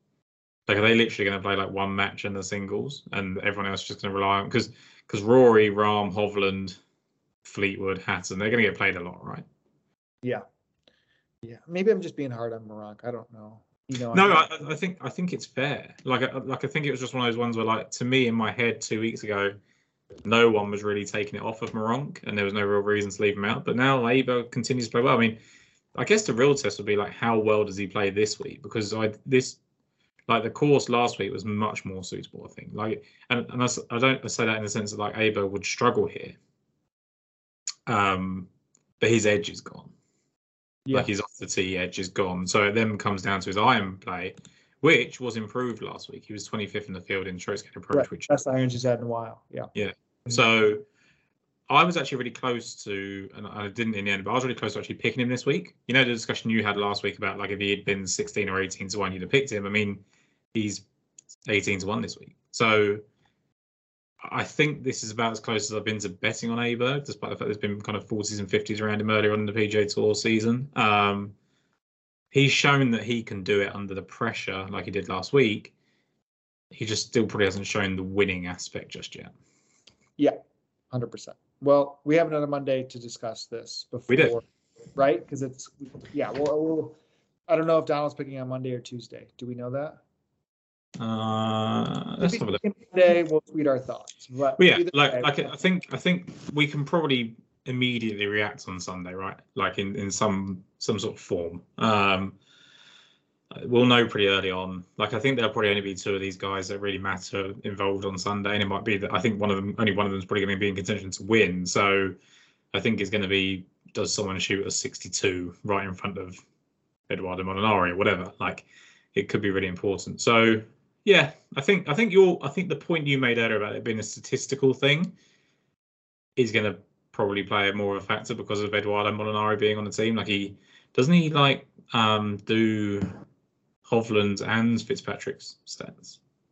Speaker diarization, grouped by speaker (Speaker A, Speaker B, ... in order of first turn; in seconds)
Speaker A: 0.7-6.8, 7.5-9.5, 14.1-19.6, 20.2-25.4, 25.9-29.6, 30.3-36.4, 37.9-38.5, 39.0-39.9, 40.9-48.4, 49.8-50.8, 51.7-60.0, 60.5-60.9, 61.5-63.0, 64.2-71.3, 72.3-75.7, 76.7-79.3, 84.1-84.3, 91.0-92.6, 94.6-102.4, 103.5-112.2, 112.7-116.4, 117.1-125.1, 126.4-133.2, 133.8-136.2
Speaker B: 11.4-14.5, 47.9-49.7, 80.9-84.5, 85.0-87.0, 87.5-90.0, 92.2-95.5